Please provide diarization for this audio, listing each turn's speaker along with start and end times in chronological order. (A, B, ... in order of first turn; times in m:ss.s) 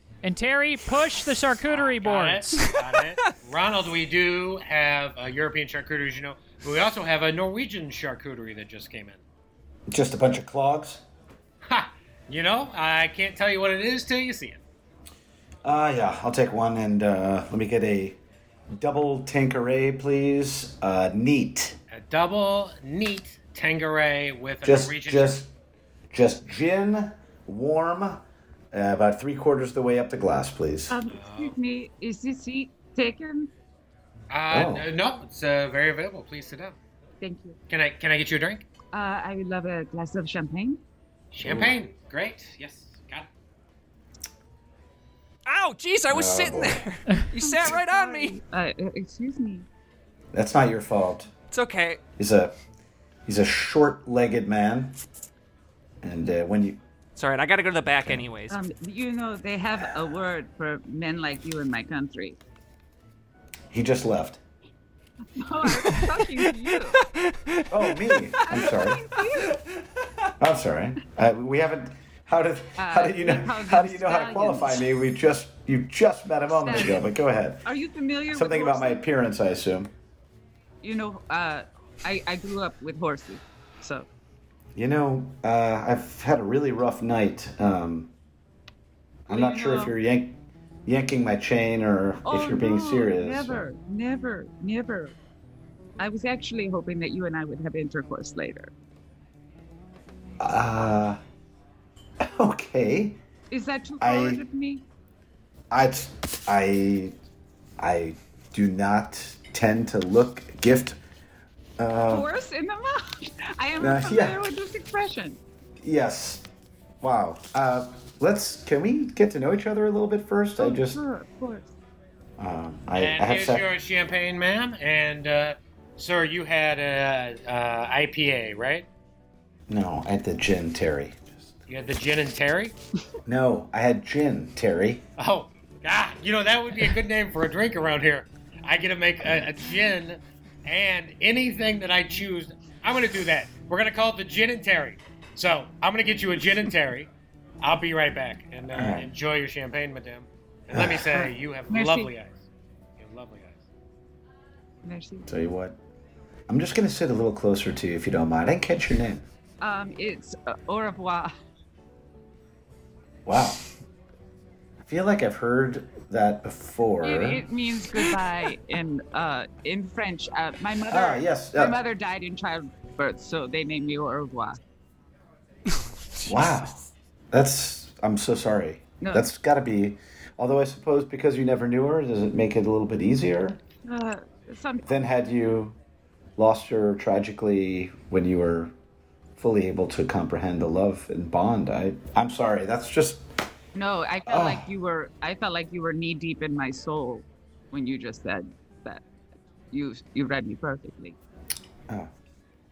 0:00.2-0:02.7 A
0:01.7-0:09.2 B
0:09.9-0:11.0 C
0:11.6-0:14.6 B
0:15.6-0:18.2 C
0:18.7-0:21.8 C
0:21.9-0:25.4 B
0:24.6-0:25.5 C
0:26.1-0:30.9 C
0:30.9-0:33.5 D
0:31.1-0:31.5 B
0:34.3-0:36.8 B
0:34.5-0:34.9 C
0:37.2-0:37.6 D
0:37.7-0:38.7 B
0:38.9-0:40.8 D
0:41.3-0:43.3 B
0:41.4-0:41.8 C
0:45.4-0:48.4 E
0:46.1-0:46.8 C
0:47.4-0:49.6 D
0:50.3-0:51.3 C
0:51.5-0:52.0 E
0:52.2-0:52.5 C
0:53.2-0:55.0 C
0:56.0-0:56.8 C
0:57.1-0:58.6 E
0:58.5-1:02.4 D
1:03.7-1:04.4 C
1:05.4-1:07.0 D
1:05.7-1:06.2 E
1:07.1-1:07.8 E
1:07.7-1:09.0 C
1:08.4-1:09.6 D
1:10.4-1:17.6 C
1:12.8-1:14.8 D
1:16.6-1:17.1 D
1:17.6-1:19.0 D
1:18.3-1:19.9 C
1:20.8-1:24.1 D
1:24.7-1:28.1 C
1:29.3-1:33.6 C
1:29.3-1:29.9 D
1:32.2-1:35.2 D
1:36.0-1:38.7 D
1:40.4-1:41.2 C
1:42.2-1:43.2 C
1:43.5-1:44.8 D
1:44.0-1:44.4 C
1:45.7-1:47.1 C
1:47.8-1:51.0 C
1:51.8-1:52.3 C
1:52.1-1:55.4 D
1:53.8-1:54.5 C
1:55.8-1:56.4 C
1:57.0-2:01.0 C
2:00.6-2:01.7 D
2:02.4-2:03.7 C
2:02.9-2:08.9 B
2:09.7-2:11.4 C
2:11.7-2:12.8 B
2:13.2-2:15.0 C
2:15.2-2:27.1 B
2:27.6-2:32.4 B
2:28.7-2:29.1 C
2:30.7-2:31.2 C
2:31.1-2:32.1 D
2:33.0-2:33.6 B
2:34.8-2:35.3 D
2:35.3-2:35.8 C
2:36.5-2:39.2 C
2:39.6-2:41.3 D
2:43.2-2:43.6 C
2:44.9-2:47.5 C
2:47.0-2:54.6 D
2:50.9-2:51.8 C
2:55.7-2:56.7 E
2:56.2-2:56.8 C
2:57.3-3:03.6 C
2:59.0-2:59.3 D
3:03.9-3:04.8 D
3:04.8-3:05.8 C
3:06.4-3:08.7 C
3:09.4-3:13.3 C
3:13.7-3:19.0 D
3:14.2-3:14.6 C
3:19.7-3:21.2 D